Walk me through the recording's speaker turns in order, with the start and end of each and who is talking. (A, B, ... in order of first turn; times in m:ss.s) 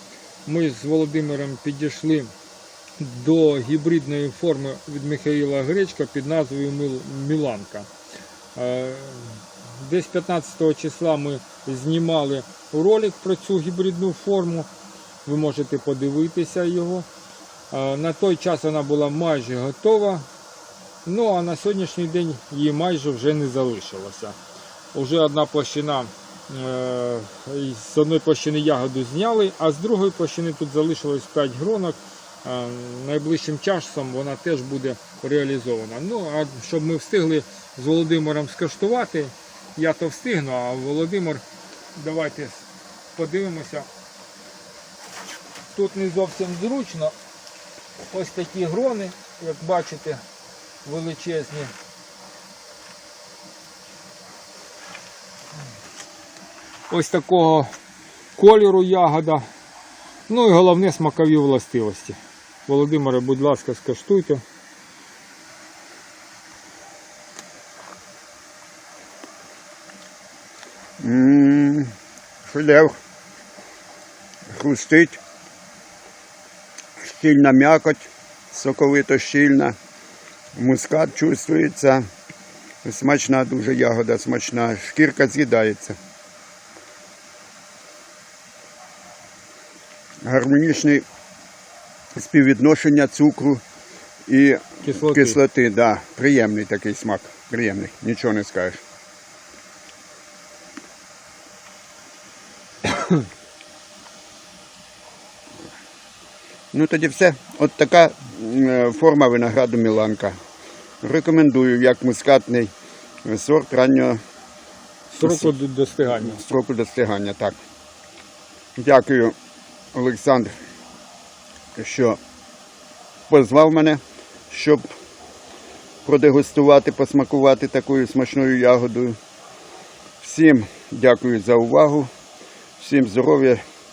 0:00.5-0:02.3 A
0:03.0-0:07.9 A
0:08.6-0:14.7 A
0:15.2-0:17.1 A
0:17.7-0:20.3 A
0:21.0-0:24.4 A
0:24.9-0:41.4 A
0:42.0-0:43.9 A
0:45.7-0:47.2 A
0:48.1-0:50.2 A
0:50.8-0:51.7 A
0:56.9-0:57.7 A
0:58.4-0:59.4 A
1:00.3-1:04.4 A
1:11.0-1:12.9 B
1:14.5-1:15.2 B
1:17.0-1:19.8 B
1:20.6-1:22.1 B
1:22.8-1:26.0 B
1:30.2-1:31.0 B
1:32.2-1:33.6 B
1:34.3-1:38.8 B
1:34.8-1:35.4 A
1:46.7-1:50.4 B
1:51.0-1:52.7 B
1:53.2-1:54.2 B
1:55.1-1:56.4 A
1:55.2-1:55.5 B
1:56.2-1:57.6 B
1:58.8-1:59.4 B
1:59.9-2:00.5 B
2:01.8-2:02.2 B
2:03.3-2:04.9 B
2:06.0-2:09.2 B
2:10.2-2:12.1 B
2:12.8-2:13.6 B